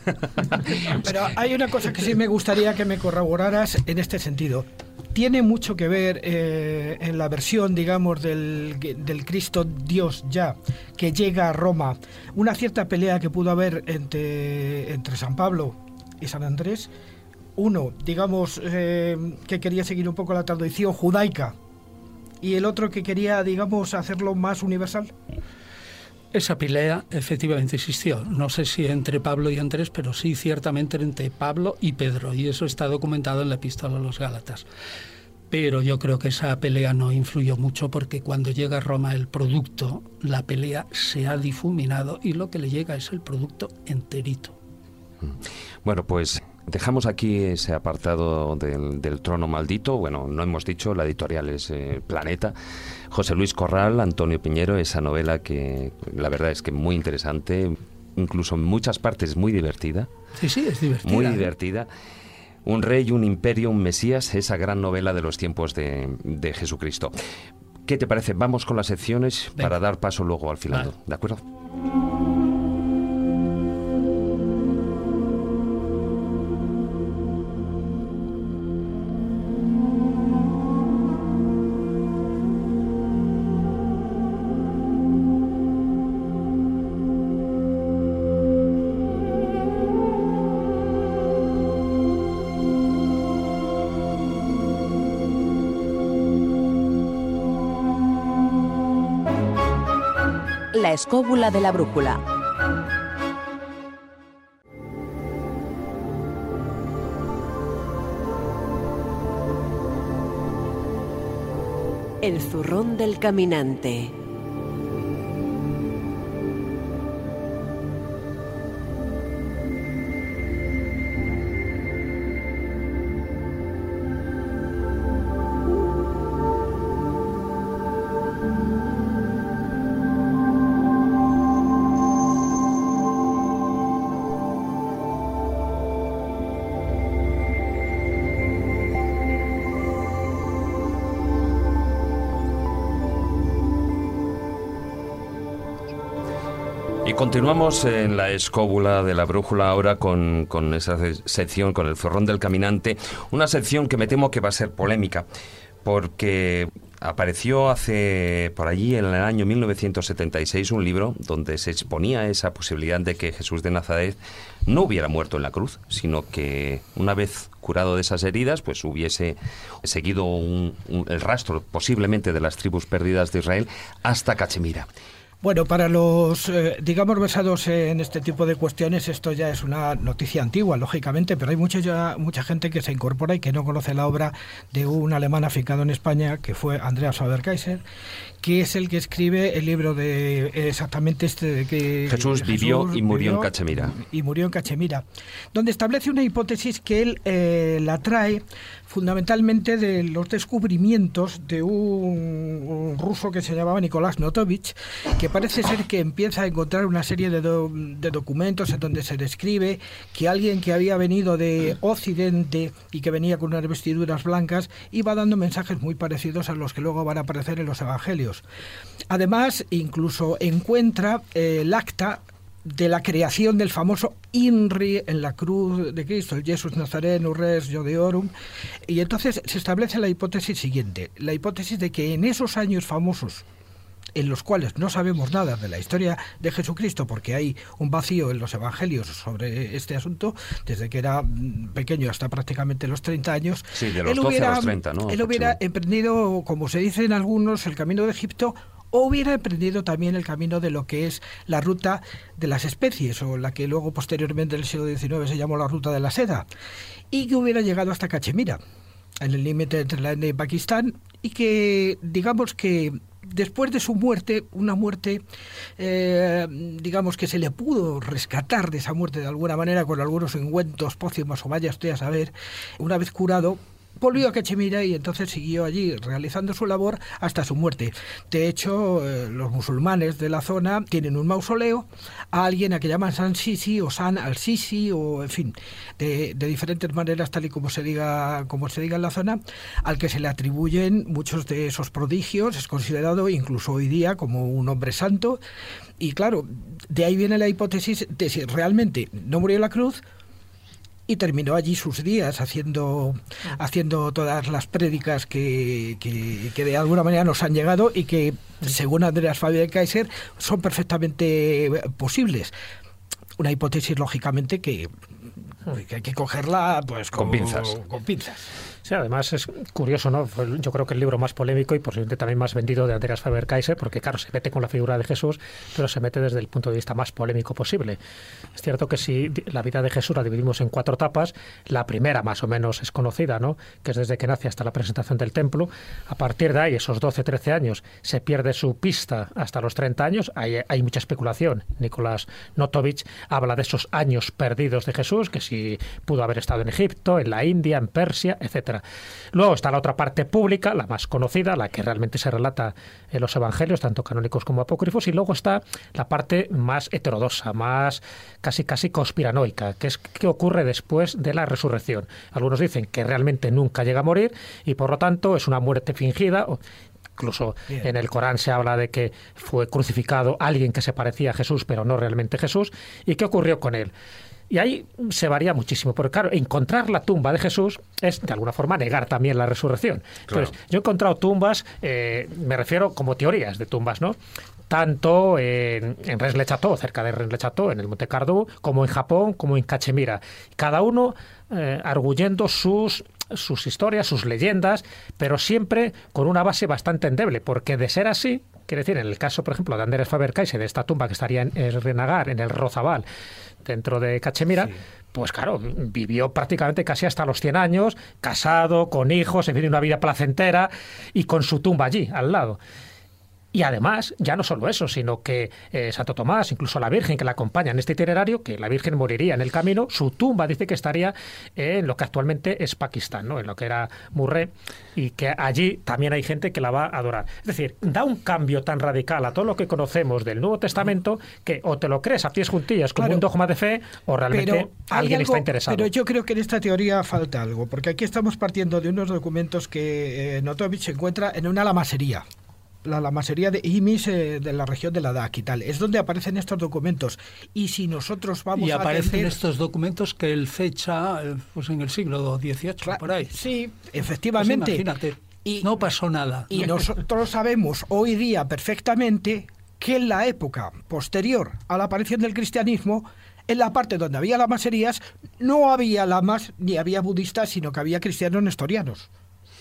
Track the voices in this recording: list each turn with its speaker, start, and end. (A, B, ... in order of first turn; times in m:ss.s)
0:00.8-0:16.9 A
0:17.6-0:21.6 A
0:22.4-0:25.2 A
0:26.3-0:34.6 B
0:35.5-0:44.6 B
0:45.2-0:52.6 C
0:53.1-1:00.1 C
1:00.4-1:01.4 B
1:01.0-1:01.9 C
1:02.6-1:07.2 C
1:07.9-1:11.4 C
1:40.7-1:42.2 D
1:52.2-1:54.1 D
2:27.0-2:35.3 C
2:35.8-2:54.9 C
2:55.4-3:07.8 A
3:08.4-3:38.4 A
3:12.1-3:14.0 C
3:39.1-3:48.3 A
3:48.9-3:53.4 A
3:54.2-4:16.5 A
4:03.7-4:05.6 C
4:17.1-4:18.6 A
4:19.2-4:25.2 A
4:25.8-4:55.4 A
4:56.0-5:00.0 A
5:01.1-5:12.5 A
5:13.4-5:14.9 A
5:15.6-5:18.5 A
5:17.2-5:17.7 C
5:18.8-5:28.0 E
5:28.6-6:06.6 E
6:07.2-6:13.9 E
6:14.5-6:24.2 E
6:24.7-6:43.1 E
6:43.6-6:52.6 E
6:53.5-7:15.9 E
7:13.0-7:13.2 A
7:14.3-7:22.2 A
7:22.8-7:29.4 A
7:28.6-7:33.3 B
7:32.8-7:34.9 A
7:34.4-7:36.6 B
7:35.4-7:35.7 A
7:36.5-7:49.1 A